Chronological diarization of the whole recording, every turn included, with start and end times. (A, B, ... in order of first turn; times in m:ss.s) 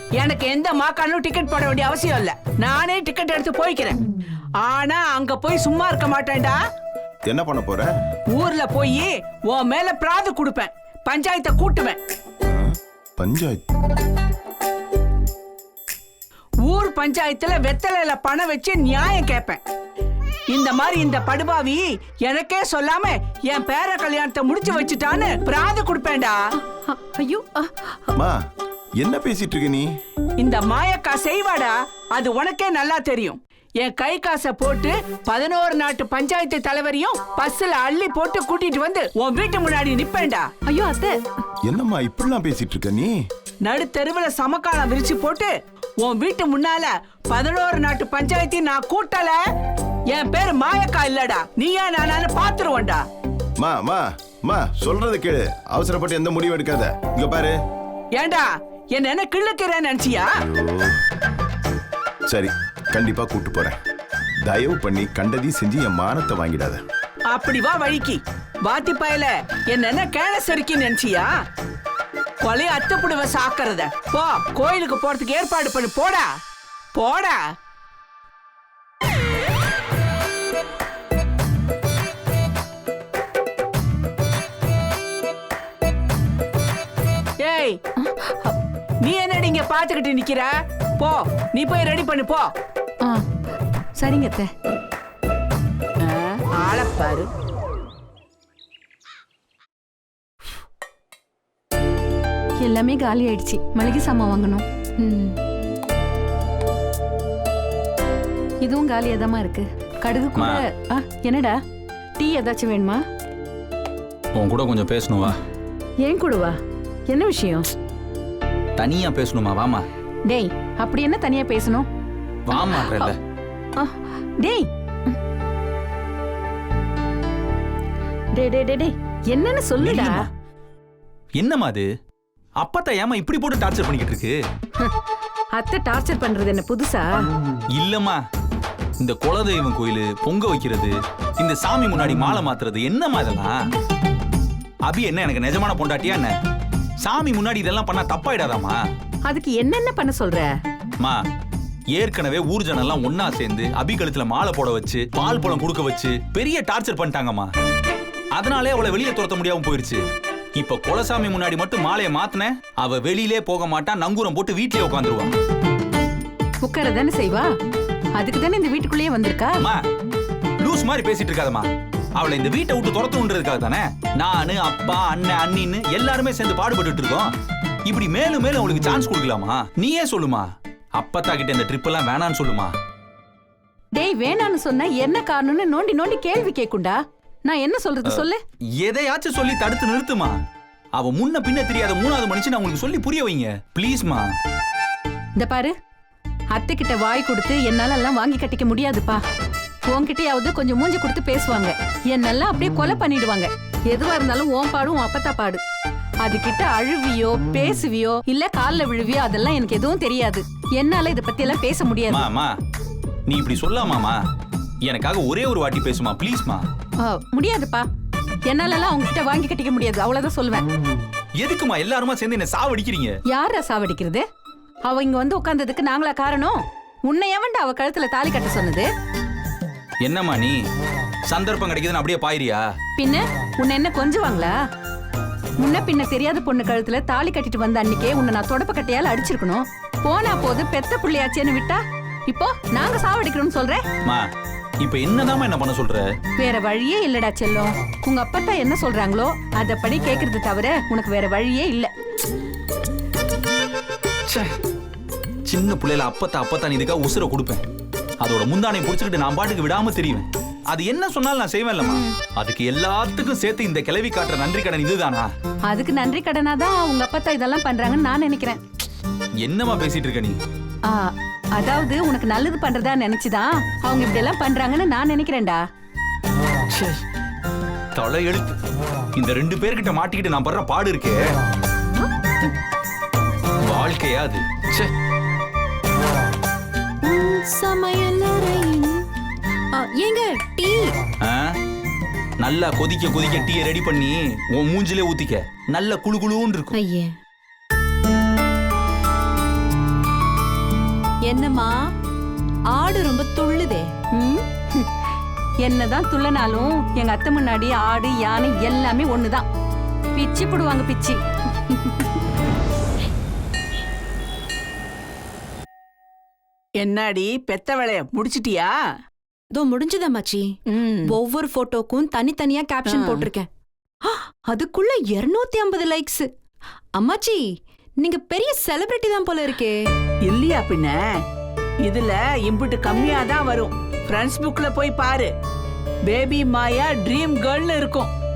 0:00.2-0:04.0 A
0:04.6-0:06.6 A
0:07.3-0:07.9 B
0:08.3-0:12.0 A
0:13.2-0:13.6 B
0:16.7-0:19.6 A
0:20.5-0:26.4 A
0:26.9-0:27.7 C
0:29.0-0:29.9 B
0:30.4-0:40.5 A
0:40.7-0:41.2 C
0:41.7-0:43.1 B
0:43.6-0:49.4 A
0:50.1-0:53.0 A
0:53.6-0:57.6 B
0:58.1-1:00.4 A
1:00.4-1:01.0 B
1:02.3-1:03.8 B
1:04.4-1:06.8 B
1:07.3-1:11.3 A
1:12.4-1:16.3 A
1:17.0-1:17.4 A
1:27.4-1:27.8 A
1:28.0-1:28.6 D
1:29.0-1:32.5 A
1:34.0-1:34.5 D
1:36.0-1:37.3 A
1:42.6-1:44.6 D
1:45.0-1:45.4 C
1:48.6-1:51.6 D
1:50.3-1:50.6 E
1:52.2-1:53.0 D
1:54.3-1:55.4 E
1:56.0-1:56.5 D
1:57.1-1:57.7 D
1:58.8-1:59.8 E
2:00.3-2:01.8 D
2:02.5-2:03.2 E
2:03.8-2:04.6 D
2:08.3-2:10.2 D
2:09.8-2:10.2 E
2:11.4-2:11.9 E
2:12.6-2:14.4 E
2:15.6-2:17.1 D
2:17.7-2:18.2 E
2:19.0-2:23.6 E
2:24.8-2:26.3 E
2:27.0-2:28.8 E
2:29.2-2:30.5 D
2:32.0-2:37.5 E
2:38.3-2:40.0 E
2:40.6-2:45.3 E
2:46.6-2:47.5 D
2:48.2-2:49.6 D
2:50.6-2:57.3 E
2:57.8-3:00.4 E
3:01.0-3:02.7 E
3:04.0-3:08.4 D
3:08.8-3:10.3 E
3:10.9-3:14.3 E
3:15.4-3:15.7 D
3:16.5-3:19.2 D
3:19.9-3:25.6 D
3:26.2-3:32.2 D
3:32.1-3:32.5 E
3:33.2-3:34.2 E
3:34.8-3:36.6 E
3:37.0-3:37.8 D
3:38.5-3:40.6 D
3:41.4-3:43.2 E
3:43.3-3:44.2 D
3:44.8-3:48.9 D
3:50.0-3:50.6 E
3:51.3-3:52.6 E
3:53.0-3:54.5 D
3:55.6-4:03.8 D
4:04.8-4:06.1 E
4:06.4-4:11.9 D
4:15.4-4:17.6 E
4:18.2-4:25.3 E
4:25.7-4:28.6 D
4:29.4-4:30.4 E
4:30.9-4:35.6 D
4:36.7-4:37.0 E
4:37.9-4:38.6 E
4:39.1-4:41.2 E
4:43.6-4:44.9 E
4:47.0-4:49.1 C
4:49.7-4:51.0 C
4:51.2-4:51.5 E
4:52.4-4:56.7 E
4:56.7-4:57.1 C
5:01.2-5:01.8 C
5:02.7-5:04.0 C
5:04.1-5:04.9 D
5:05.6-5:09.4 D
5:10.2-5:11.2 D
5:16.8-5:18.7 A
5:19.5-5:20.5 C
5:20.7-5:21.1 A
5:21.1-5:23.5 C
5:22.9-5:23.3 A
5:24.0-5:26.3 C
5:27.0-5:27.4 C
5:28.0-5:29.8 C
5:30.3-5:30.9 A
5:31.8-5:35.3 A
5:36.1-5:38.1 A